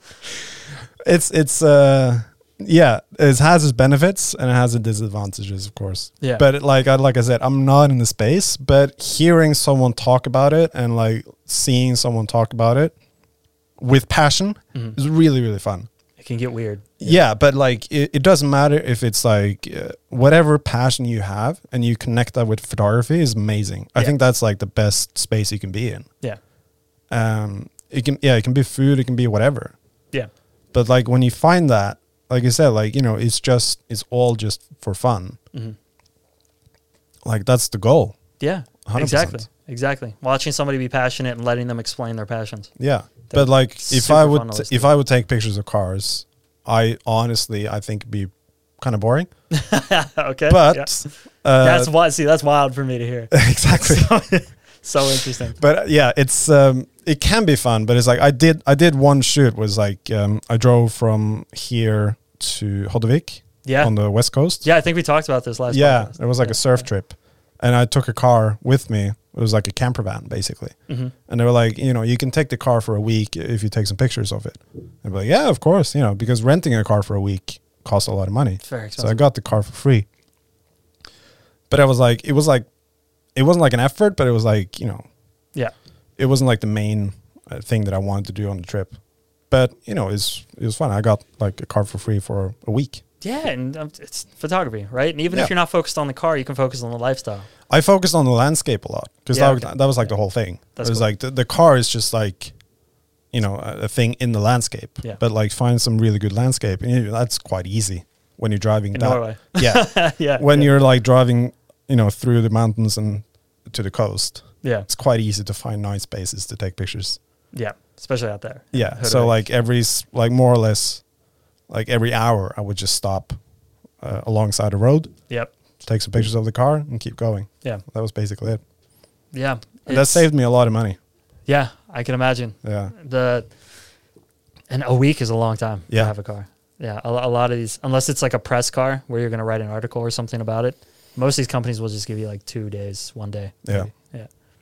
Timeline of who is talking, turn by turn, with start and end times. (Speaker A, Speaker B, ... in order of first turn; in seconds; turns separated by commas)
Speaker A: 1.0-12.9, Speaker A: 13.8-15.9, Speaker B: 16.2-17.2, Speaker A: 17.0-26.1, Speaker A: 27.1-29.7, Speaker A: 30.7-35.4, Speaker A: 37.2-38.2, Speaker B: 38.4-42.7, Speaker A: 38.9-39.5, Speaker A: 42.8-49.3, Speaker B: 43.3-44.9, Speaker B: 49.5-51.1, Speaker A: 50.5-51.9, Speaker B: 51.6-55.6, Speaker A: 53.3-54.1, Speaker A: 55.6-64.7, Speaker B: 63.6-63.9, Speaker B: 64.6-66.9, Speaker A: 65.7-70.8, Speaker B: 70.9-71.1, Speaker A: 71.3-80.1, Speaker B: 78.6-79.2, Speaker A: 81.7-82.7, Speaker A: 83.3-85.0, Speaker A: 86.2-88.9, Speaker A: 89.5-93.0, Speaker B: 93.2-97.5, Speaker A: 97.7-102.5, Speaker B: 99.3-100.1, Speaker B: 100.8-101.1, Speaker A: 103.3-117.2, Speaker B: 108.9-110.7, Speaker B: 117.5-119.4, Speaker A: 118.7-121.0, Speaker A: 121.7-123.4, Speaker A: 124.0-125.1, Speaker A: 125.8-128.6, Speaker B: 129.3-130.3, Speaker A: 129.9-131.0, Speaker B: 131.5-133.5, Speaker A: 132.6-132.9, Speaker B: 134.7-144.3, Speaker A: 143.7-143.9